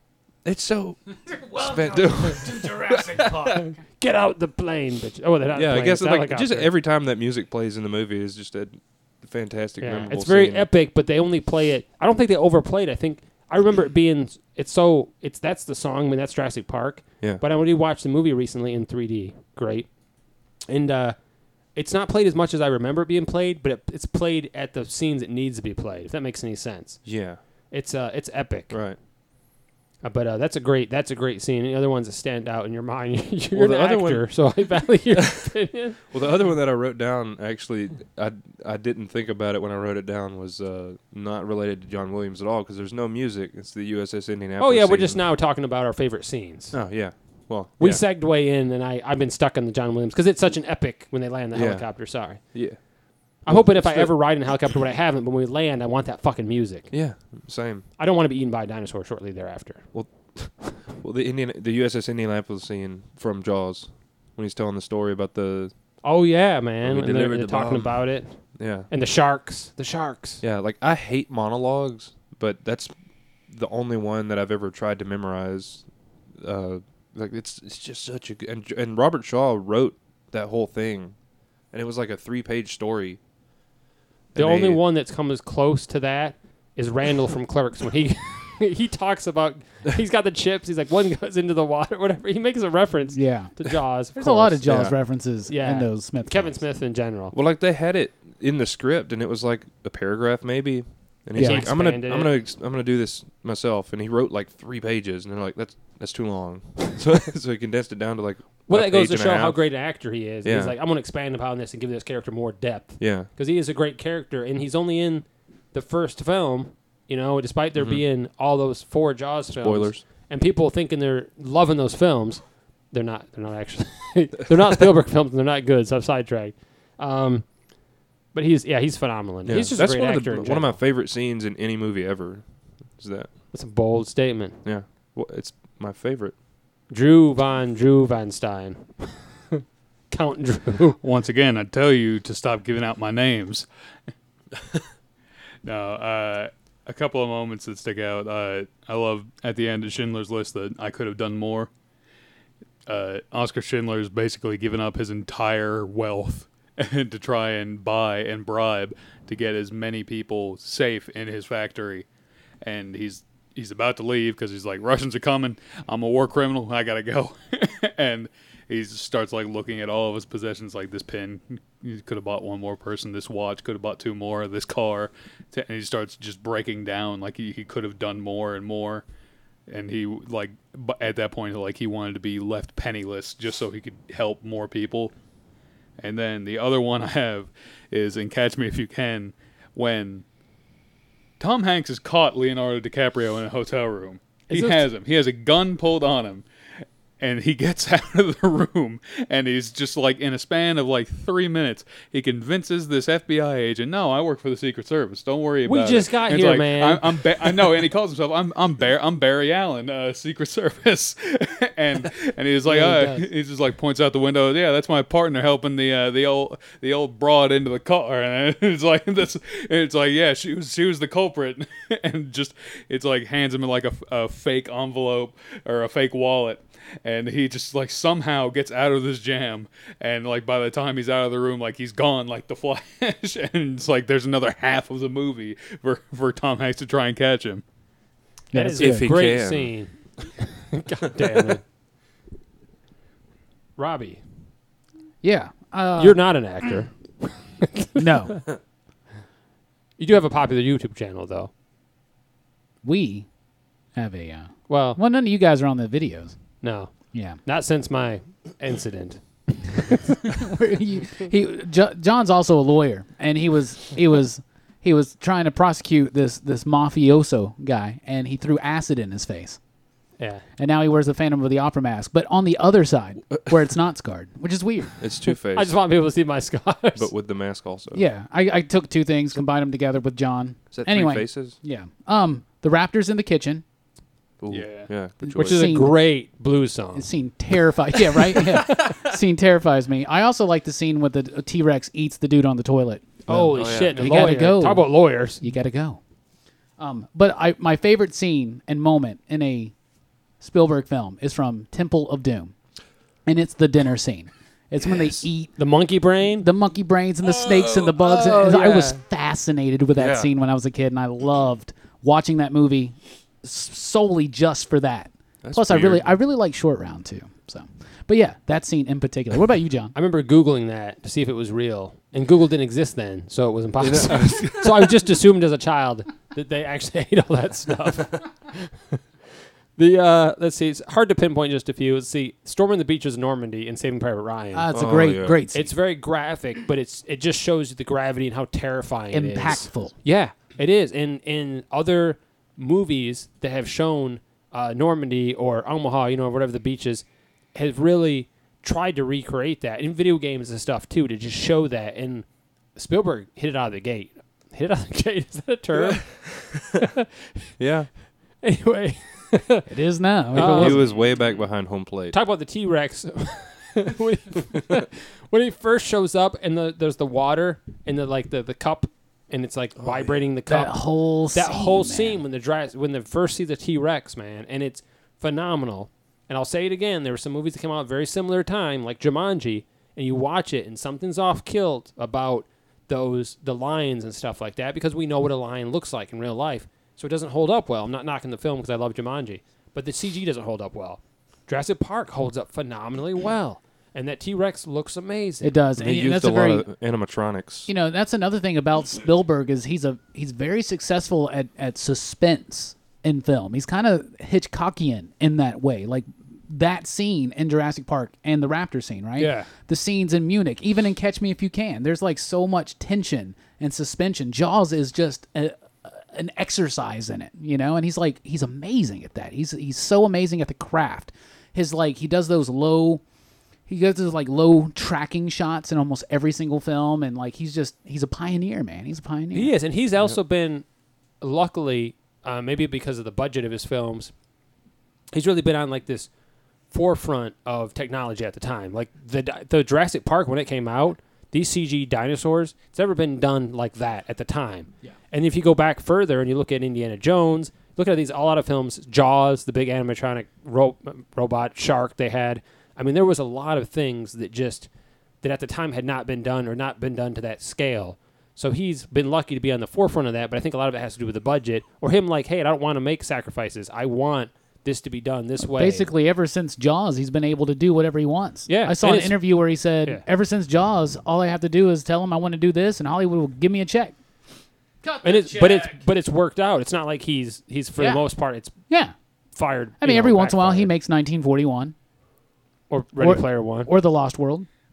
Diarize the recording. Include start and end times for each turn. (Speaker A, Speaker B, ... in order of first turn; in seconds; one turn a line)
Speaker A: 0.4-3.6
Speaker B: 1.4-3.8
Speaker C: 3.9-6.7
Speaker A: 5.5-10.7
Speaker C: 9.8-19.9
Speaker C: 20.7-21.2
Speaker C: 21.7-27.1
Speaker A: 27.1-27.4
Speaker C: 27.7-28.8
Speaker A: 28.7-29.0
Speaker C: 30.0-36.0
Speaker A: 33.5-34.5
Speaker A: 36.1-45.2
Speaker C: 44.6-46.8
Speaker A: 46.7-48.0
Speaker C: 47.8-52.4
Speaker A: 51.5-52.8
Speaker A: 53.4-54.2
Speaker C: 53.5-56.9
Speaker A: 56.9-57.8
Speaker C: 58.0-59.9
Speaker A: 59.9-65.7
Speaker C: 66.0-70.4
Speaker A: 66.8-68.0
Speaker A: 68.5-68.9
Speaker A: 70.4-72.9
Speaker A: 73.5-75.8
Speaker A: 76.4-81.2
Speaker A: 81.7-83.2
Speaker A: 84.3-84.8
Speaker C: 84.3-94.7
Speaker B: 93.1-93.5
Speaker B: 94.1-96.6
Speaker A: 94.7-95.0
Speaker C: 95.5-97.3
Speaker A: 97.3-109.7
Speaker B: 101.4-101.7
Speaker C: 101.4-102.3
Speaker C: 108.7-127.5
Speaker A: 110.4-110.8
Speaker A: 113.0-113.3
Speaker A: 117.8-118.0
Speaker A: 119.6-120.0
Speaker C: 128.3-130.8
Speaker A: 129.4-133.3
Speaker C: 133.5-134.6
Speaker A: 134.6-136.3
Speaker C: 136.9-141.0
Speaker D: 141.0-143.7
Speaker D: 145.7-151.7
Speaker D: 152.9-162.1
Speaker D: 162.6-179.0
Speaker D: 179.7-185.1
Speaker D: 186.0-190.2
Speaker D: 191.4-196.4
Speaker C: 194.5-194.8
Speaker D: 197.2-237.6
Speaker C: 205.7-207.7
Speaker C: 212.7-213.2
Speaker B: 238.5-239.1
Speaker C: 238.5-241.6
Speaker A: 238.8-239.7
Speaker C: 243.8-244.2
Speaker B: 245.2-246.2
Speaker C: 246.0-248.1
Speaker B: 248.0-248.5
Speaker C: 250.0-251.5
Speaker B: 252.8-253.3
Speaker B: 253.9-256.4
Speaker C: 254.7-255.0
Speaker C: 256.6-260.2
Speaker B: 257.1-257.4
Speaker B: 260.3-269.6
Speaker C: 270.2-270.4
Speaker B: 270.6-275.0
Speaker A: 275.0-275.8
Speaker C: 275.5-277.1
Speaker A: 277.0-278.1
Speaker B: 277.9-283.6
Speaker A: 280.7-281.6
Speaker A: 284.4-285.8
Speaker D: 284.5-284.9
Speaker B: 285.2-286.0
Speaker C: 285.4-287.1
Speaker B: 286.9-296.0
Speaker C: 293.3-295.4
Speaker A: 293.5-294.1
Speaker B: 296.8-299.7
Speaker B: 300.4-302.5
Speaker B: 303.3-305.6
Speaker A: 304.8-305.2
Speaker C: 305.6-306.5
Speaker B: 306.4-319.9
Speaker A: 307.3-308.7
Speaker C: 308.1-309.0
Speaker A: 310.0-310.3
Speaker A: 315.4-316.2
Speaker C: 319.9-329.0
Speaker A: 323.8-325.0
Speaker C: 329.8-334.7
Speaker B: 334.5-335.7
Speaker A: 334.7-335.4
Speaker C: 335.5-356.2
Speaker B: 339.1-339.9
Speaker A: 355.8-356.2
Speaker A: 357.6-357.9
Speaker C: 358.4-359.7
Speaker B: 359.7-360.9
Speaker C: 360.3-360.9
Speaker A: 360.4-362.2
Speaker C: 362.1-395.6
Speaker A: 369.8-370.2
Speaker B: 370.5-372.2
Speaker B: 395.4-396.6
Speaker A: 395.8-397.7
Speaker B: 397.7-423.0
Speaker C: 409.2-409.5
Speaker B: 423.7-429.5
Speaker C: 429.3-430.7
Speaker C: 431.2-434.1
Speaker C: 435.1-436.1
Speaker C: 436.7-454.7
Speaker C: 455.2-465.9
Speaker B: 465.6-474.0
Speaker C: 468.5-469.2
Speaker B: 474.8-475.8
Speaker C: 475.0-478.5
Speaker B: 477.8-478.0
Speaker B: 478.7-478.9
Speaker C: 479.4-480.7
Speaker B: 479.8-481.7
Speaker C: 482.7-483.7
Speaker B: 483.0-484.5